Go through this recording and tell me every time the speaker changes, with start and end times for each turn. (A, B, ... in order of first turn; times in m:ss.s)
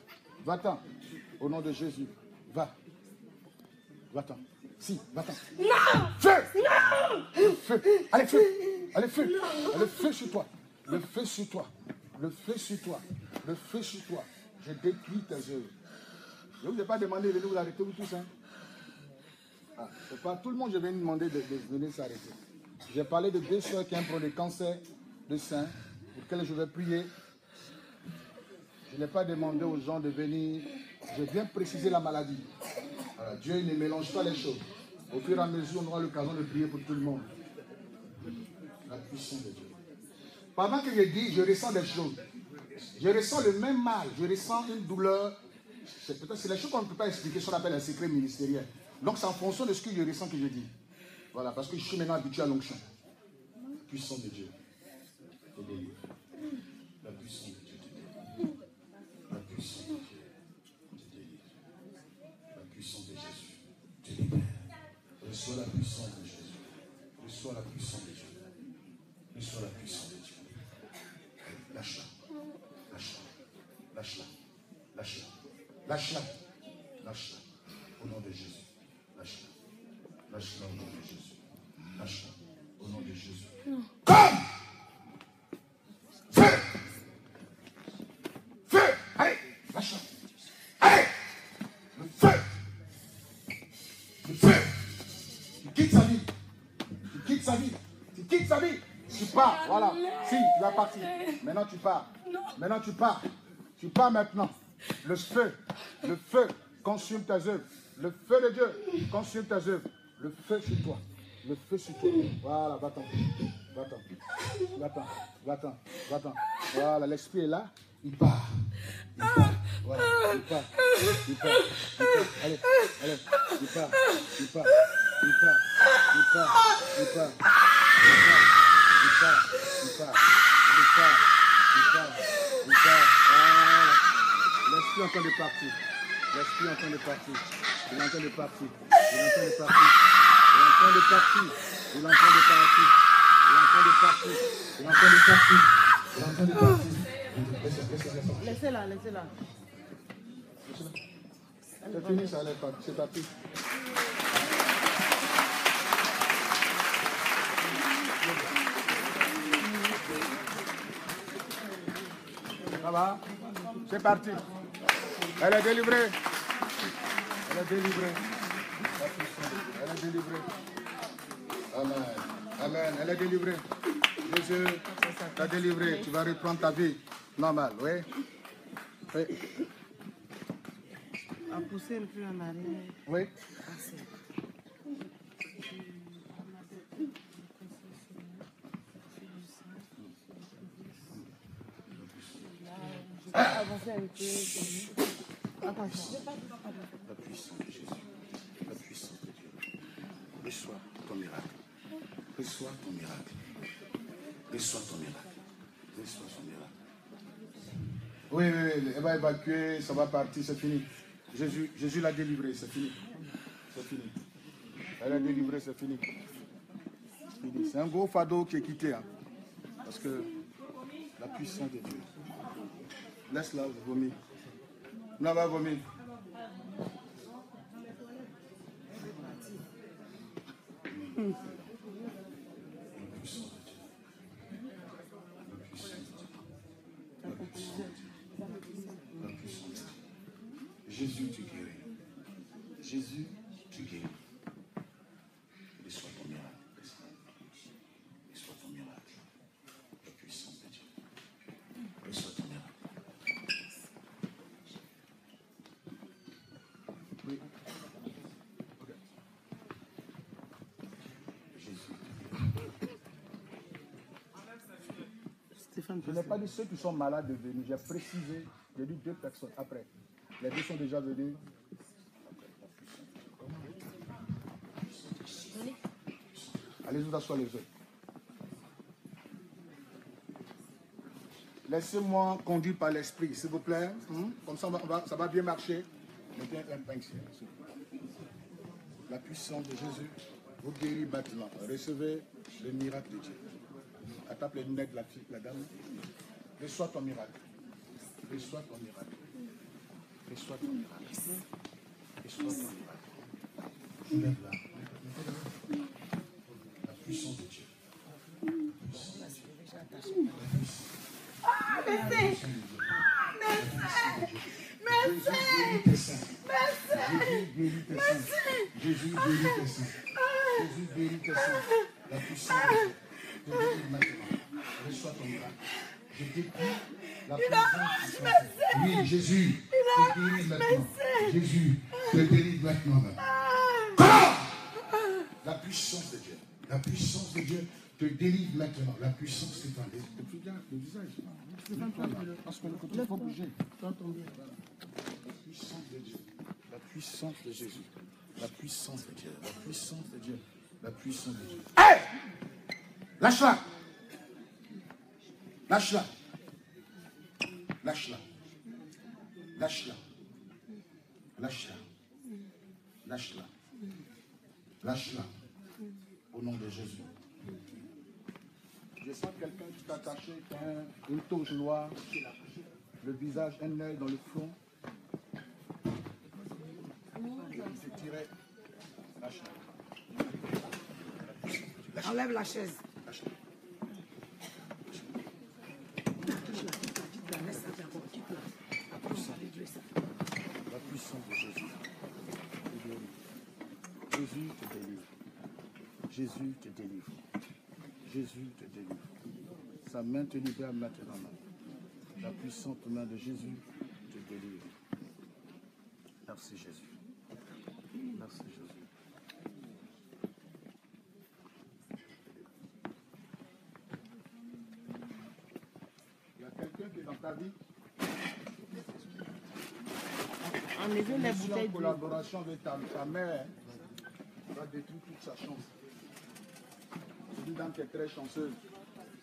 0:00.4-0:00.9 A
0:01.4-0:02.7 A
0:04.1-0:15.7 A
0:16.6-0:18.3 A
0:19.8-0:22.4 A
0:22.9-0:27.1 A
0:28.9-0:32.5 A
0:33.2-0:37.3 A
0:38.9-0:39.8 A
0:40.6-0:42.2 A
0:42.8-0:50.7 A
0:51.3-0:52.8 A
0:53.8-0:54.5 A
0:55.6-0:56.0 A
0:57.0-0:58.2 A
0:59.3-1:00.2 A
1:00.9-1:01.5 A
1:02.5-1:04.7 A
1:05.2-1:06.7 A
1:07.2-1:08.4 A
1:09.3-1:10.6 A
1:11.4-1:12.1 A
1:12.9-1:13.3 A
1:13.9-1:14.3 A
1:15.0-1:15.3 A
1:15.8-1:16.3 A
1:17.0-1:17.4 A
1:18.0-1:19.5 A
1:20.3-1:21.4 A
1:22.0-1:23.5 A
1:24.0-1:24.5 A
1:26.3-1:26.8 A
1:28.7-1:30.0 A
1:30.8-1:31.1 A
1:31.9-1:32.5 A
1:34.2-1:34.8 A
1:35.6-1:36.3 A
1:37.1-1:54.0 A
1:54.6-2:07.4 A
2:08.0-2:14.0 A
2:14.6-2:15.8 A
2:16.3-2:20.0 A
2:20.5-2:23.0 A
2:23.5-2:28.6 A
2:28.4-2:29.3 B
2:30.6-2:31.0 A
2:31.8-2:32.4 B
2:31.9-2:33.3 A
2:38.2-2:38.5 A
2:42.8-2:43.2 A
2:43.8-2:44.4 A
2:45.4-2:46.2 A
2:47.5-2:48.2 A
2:49.0-2:50.5 A
2:51.7-2:53.6 A
2:54.2-2:58.1 A
2:54.9-2:56.1 B
2:59.1-2:59.4 A
3:01.5-3:03.0 B
3:03.0-3:03.3 A
3:03.6-3:04.1 B
3:12.7-3:14.9 B
3:13.3-3:13.6 A
3:15.6-3:16.6 B
3:17.1-3:18.0 A
3:18.6-3:19.6 A
3:20.4-3:21.5 A
3:22.3-3:23.4 A
3:24.5-3:25.3 A
3:25.9-3:26.7 A
3:28.3-3:33.0 A
3:33.7-3:34.2 A
3:35.0-3:36.0 A
3:37.4-3:39.1 A
3:39.8-3:40.3 A
3:41.2-3:42.1 A
3:43.3-3:44.2 A
3:45.2-3:45.8 A
3:49.0-3:49.5 B
3:53.0-3:53.9 A
3:55.4-3:56.4 A
3:57.2-3:58.1 A
3:59.2-4:00.0 A
4:00.8-4:01.8 A
4:02.8-4:04.2 A
4:05.8-4:07.2 A
4:08.3-4:09.2 A
4:10.0-4:10.8 A
4:12.0-4:12.7 A
4:17.2-4:17.5 A
4:21.5-4:22.3 A
4:25.6-4:26.5 B
4:26.0-4:29.9 A
4:30.4-4:31.4 A
4:33.4-4:33.8 A
4:36.6-4:37.7 A
4:41.7-4:47.5 A
4:49.1-4:53.4 A
4:54.2-4:55.7 A
4:56.6-4:57.4 A
4:58.2-4:59.3 A
5:00.3-5:01.4 A
5:02.2-5:03.2 A
5:04.0-5:05.4 A
5:06.8-5:07.7 A
5:08.7-5:10.9 A
5:11.6-5:12.1 B
5:11.7-5:25.6 A
5:26.1-5:33.2 A
5:34.0-5:34.5 A
5:35.4-5:43.6 A
5:41.7-5:44.4 B
5:45.3-5:52.0 A
5:53.2-5:53.6 A
5:55.7-5:56.1 A
5:57.8-5:58.2 A
5:59.6-6:00.0 A
6:01.4-6:01.8 A
6:03.0-6:03.5 A
6:04.8-6:05.3 A
6:06.3-6:07.1 A
6:09.0-6:14.6 A
6:17.3-6:18.3 A
6:19.2-6:19.6 A
6:20.5-6:22.3 A
6:22.0-6:22.8 B
6:23.0-6:23.3 A
6:26.3-6:28.5 B
6:28.9-6:29.4 A
6:29.1-6:29.8 B
6:30.7-6:31.8 A
6:32.7-6:33.1 A
6:34.1-6:35.1 A
6:36.1-6:37.2 A
6:38.0-6:39.1 A
6:39.8-6:41.4 A
6:42.2-6:44.7 A
6:46.2-6:46.9 A
6:48.1-6:48.9 A
6:56.4-6:57.6 A
7:00.5-7:02.0 B
7:01.0-7:03.6 A
7:04.5-7:05.7 A
7:07.3-7:08.6 A